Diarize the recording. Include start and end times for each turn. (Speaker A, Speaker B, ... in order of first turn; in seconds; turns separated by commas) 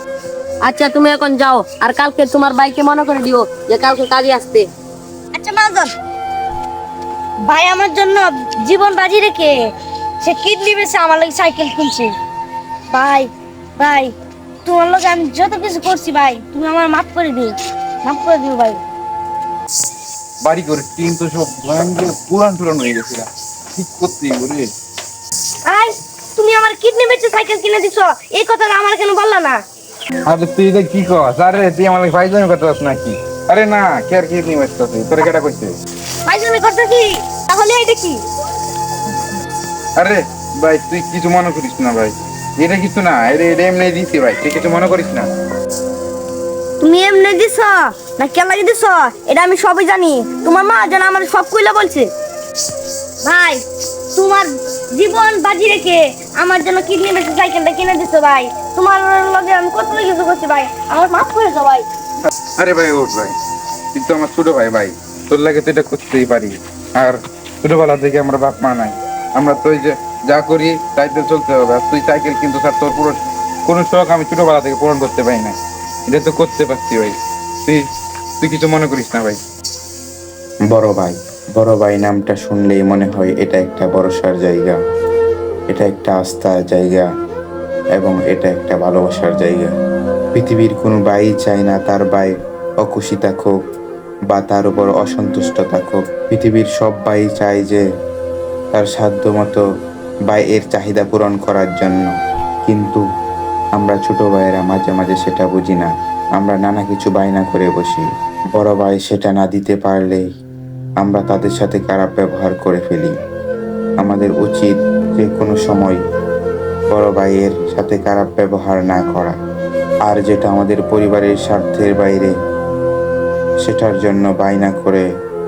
Speaker A: 0.6-4.7, Speaker B: 5.3-5.9, Speaker B: 7.5-12.2, Speaker B: 12.9-18.8, Speaker C: 20.4-24.7, Speaker B: 25.6-29.6, Speaker C: 30.2-35.8, Speaker B: 36.2-38.2, Speaker C: 40.0-45.3, Speaker B: 46.8-52.1, Speaker B: 53.2-61.9, Speaker C: 62.6-63.4, Speaker C: 63.9-77.9, Speaker C: 78.4-79.4, Speaker D: 80.7-84.8, Speaker D: 85.7-87.1, Speaker D: 88.0-89.7, Speaker D: 90.3-92.3, Speaker D: 92.8-93.5, Speaker D: 94.3-97.8, Speaker D: 98.7-99.6, Speaker D: 100.3-102.1, Speaker D: 102.7-103.0, Speaker D: 103.8-110.2, Speaker D: 111.0-113.1, Speaker D: 114.0-116.0, Speaker D: 116.9-119.4, Speaker D: 120.0-122.3, Speaker D: 123.6-125.0